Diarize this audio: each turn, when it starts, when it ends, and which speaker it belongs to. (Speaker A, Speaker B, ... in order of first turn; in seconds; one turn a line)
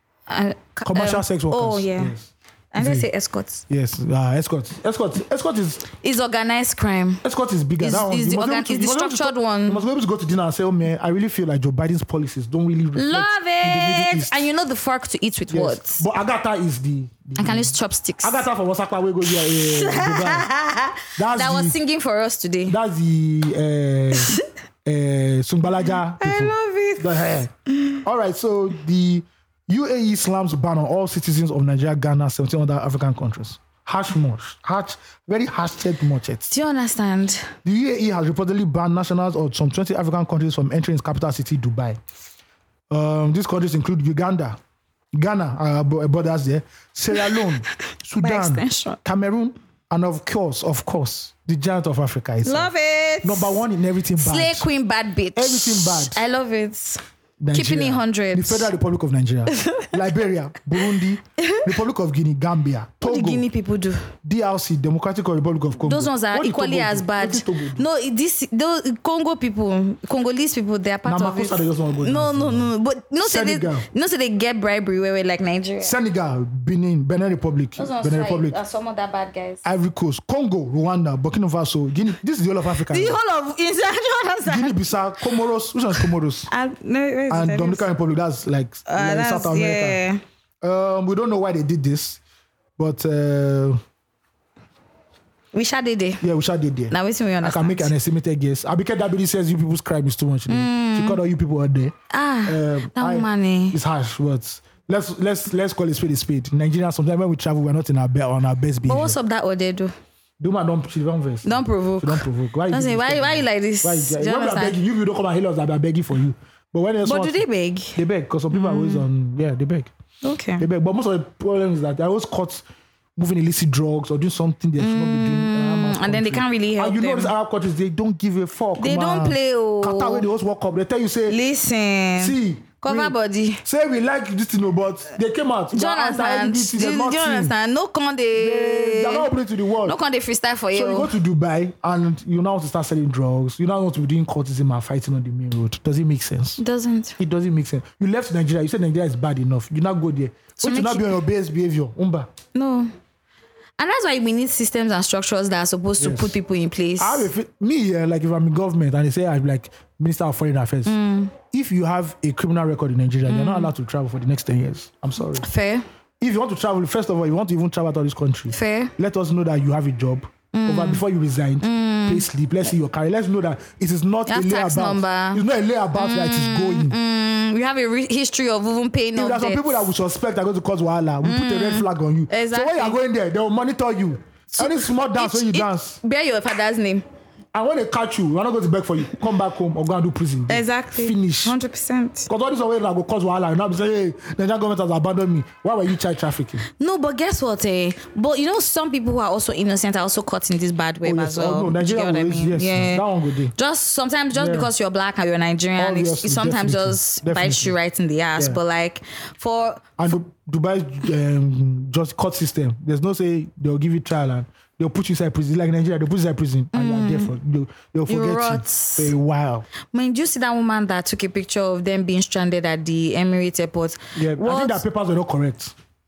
Speaker A: 0.3-2.2
Speaker B: 0.8-3.1
Speaker A: 2.7-3.6
Speaker B: 3.7-5.8
Speaker A: 6.0-7.2
Speaker B: 7.2-14.5
Speaker A: 7.8-9.8
Speaker A: 13.0-16.0
Speaker B: 15.5-20.5
Speaker A: 17.4-18.5
Speaker A: 19.5-22.8
Speaker B: 21.2-21.8
Speaker B: 22.7-27.5
Speaker A: 24.1-24.4
Speaker A: 26.1-28.0
Speaker B: 28.0-36.5
Speaker A: 36.5-37.5
Speaker B: 37.6-42.0
Speaker B: 42.9-44.6
Speaker B: 45.1-52.7
Speaker A: 47.2-47.5
Speaker A: 48.2-49.0
Speaker A: 52.4-53.6
Speaker B: 53.2-54.7
Speaker A: 54.2-57.0
Speaker B: 55.4-56.2
Speaker B: 57.4-63.5
Speaker A: 57.5-58.7
Speaker A: 59.6-59.9
Speaker A: 61.4-61.7
Speaker A: 63.0-64.1
Speaker B: 64.2-67.8
Speaker A: 65.8-76.0
Speaker B: 71.1-73.9
Speaker B: 75.8-78.6
Speaker A: 77.8-79.6
Speaker B: 79.6-83.2
Speaker A: 82.9-84.9
Speaker B: 84.5-86.5
Speaker A: 86.5-87.9
Speaker B: 87.3-90.0
Speaker A: 88.9-90.2
Speaker B: 90.6-92.2
Speaker B: 92.8-93.8
Speaker A: 95.5-96.2
Speaker B: 96.2-102.0
Speaker A: 96.9-97.9
Speaker A: 100.5-101.2
Speaker A: 102.1-103.8
Speaker B: 102.5-109.2
Speaker A: 108.8-109.9
Speaker B: 110.4-117.4
Speaker A: 111.4-114.8
Speaker A: 117.0-118.0
Speaker B: 118.0-119.9
Speaker A: 118.5-119.1
Speaker A: 120.2-120.7
Speaker B: 120.6-122.6
Speaker B: 123.2-131.4
Speaker A: 124.8-127.3
Speaker A: 128.8-130.3
Speaker A: 131.3-133.6
Speaker B: 132.2-137.5
Speaker A: 135.7-139.3
Speaker B: 138.3-140.0
Speaker A: 139.8-141.1
Speaker B: 140.7-146.6
Speaker A: 146.6-147.2
Speaker B: 147.2-152.3
Speaker A: 150.6-151.2
Speaker A: 152.5-152.9
Speaker A: 153.8-157.3
Speaker B: 156.0-156.4
Speaker B: 157.0-161.0
Speaker A: 160.9-161.3
Speaker B: 161.5-165.4
Speaker A: 163.3-163.7
Speaker A: 165.4-165.8
Speaker B: 166.2-177.0
Speaker A: 168.5-168.9
Speaker A: 170.5-171.0
Speaker A: 171.6-172.2
Speaker A: 174.3-175.4
Speaker A: 176.0-179.9
Speaker B: 179.2-186.0
Speaker A: 181.2-183.0
Speaker A: 184.6-187.1
Speaker B: 187.5-191.6
Speaker A: 190.5-192.3
Speaker B: 192.3-196.6
Speaker A: 196.7-203.0
Speaker B: 201.0-203.5
Speaker A: 203.6-210.0
Speaker B: 204.3-204.7
Speaker B: 205.8-207.7
Speaker B: 210.0-219.7
Speaker A: 216.7-217.3
Speaker A: 218.1-219.1
Speaker A: 219.9-224.8
Speaker B: 224.2-225.7